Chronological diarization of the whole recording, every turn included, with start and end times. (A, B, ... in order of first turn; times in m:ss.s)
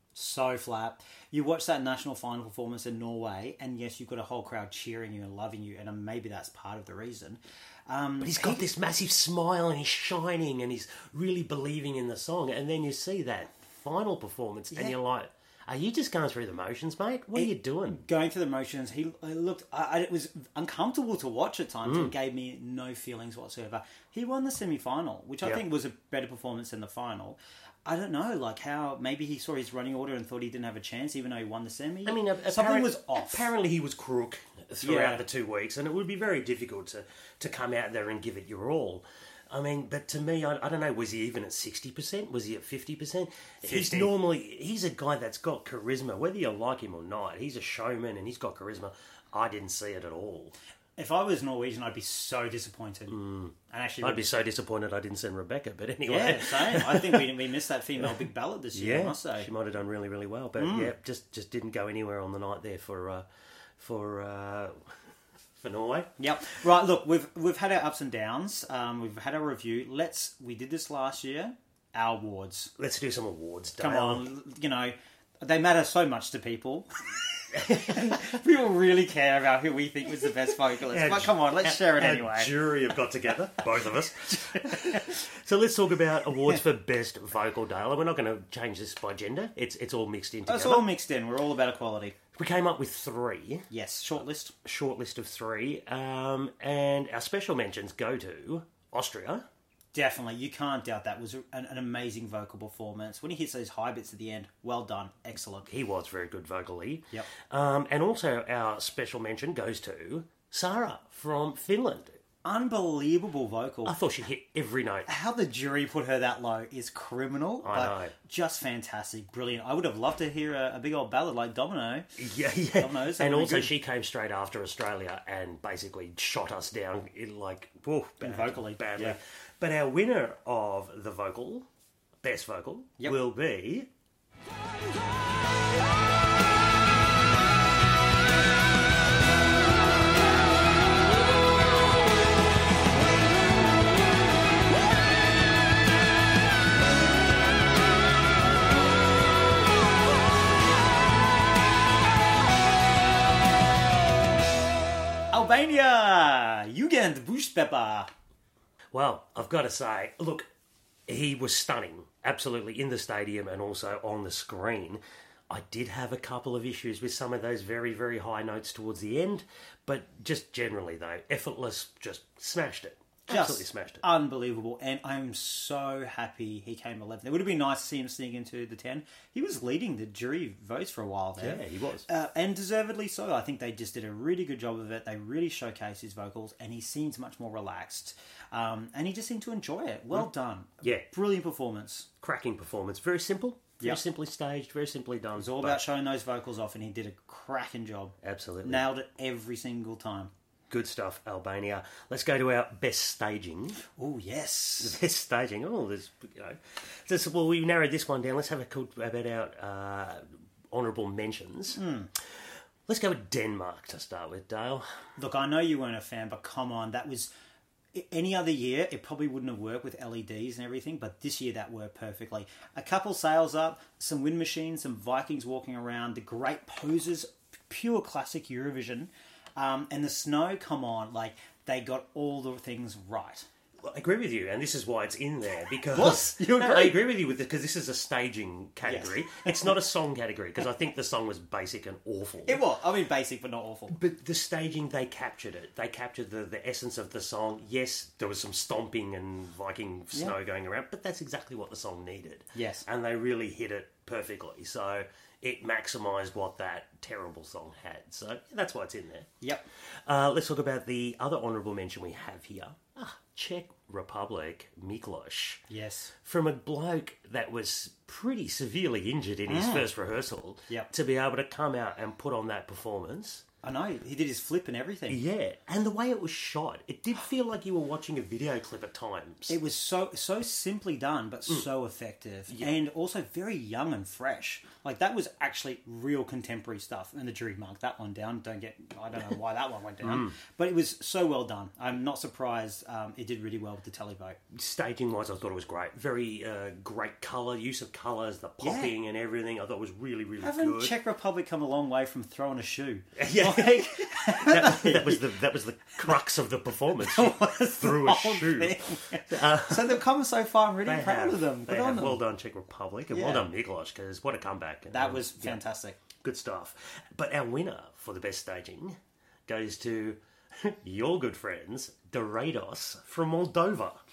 0:00.2-0:08.6 A
0:08.2-0:18.0 B
0:17.3-0:33.5 A
0:21.8-0:22.1 B
0:32.1-0:50.6 B
0:34.8-0:35.2 A
0:43.6-0:44.2 A
0:51.0-0:54.3 A
0:53.1-0:57.4 B
0:56.1-0:59.5 A
0:58.7-1:03.3 B
1:00.6-1:00.9 A
1:03.8-1:05.0 B
1:05.6-1:06.2 B
1:06.2-1:12.7 A
1:12.8-1:14.2 B
1:13.8-1:17.0 A
1:17.5-1:22.5 A
1:17.7-1:18.1 B
1:20.9-1:30.9 B
1:30.5-1:32.2 A
1:32.3-1:33.7 B
1:33.7-1:34.5 A
1:34.6-1:39.5 B
1:39.9-1:45.7 A
1:45.7-1:52.2 B
1:52.4-1:54.0 A
1:53.8-1:55.1 B
1:55.1-2:02.1 A
1:57.6-1:58.1 B
2:02.2-2:11.7 B
2:02.8-2:03.7 A
2:08.2-2:09.2 A
2:12.2-2:13.9 B
2:35.3-2:38.1 A
2:38.9-2:40.5 B
2:41.1-2:54.0 B
2:53.3-3:12.1 A
3:01.4-3:02.1 B
3:12.2-3:15.8 B
3:15.4-3:20.3 A
3:18.2-3:18.9 B
3:20.7-3:23.8 B
3:24.0-3:25.0 A
3:24.8-3:31.8 B
3:31.7-3:32.1 A
3:32.9-3:34.9 B
3:35.2-3:37.3 A
3:37.9-3:53.5 A
3:53.8-4:02.6 B
3:55.9-3:57.0 A
3:58.8-3:59.7 A
4:02.5-4:04.0 A
4:03.9-4:19.3 B
4:12.6-4:12.8 A
4:19.4-4:19.7 A
4:20.0-4:25.6 B
4:25.7-4:26.1 A
4:26.2-4:33.4 B
4:29.5-4:29.9 A
4:33.6-4:35.2 A
4:35.1-4:39.6 B
4:39.5-4:54.4 A
4:50.0-4:50.3 B
4:54.5-5:01.0 B
4:58.6-4:58.9 A
5:00.4-5:05.3 A
5:03.2-5:10.0 B
5:07.0-5:12.2 A
5:10.8-5:15.6 B
5:13.1-5:13.5 A
5:14.9-5:16.0 A
5:16.2-5:24.0 B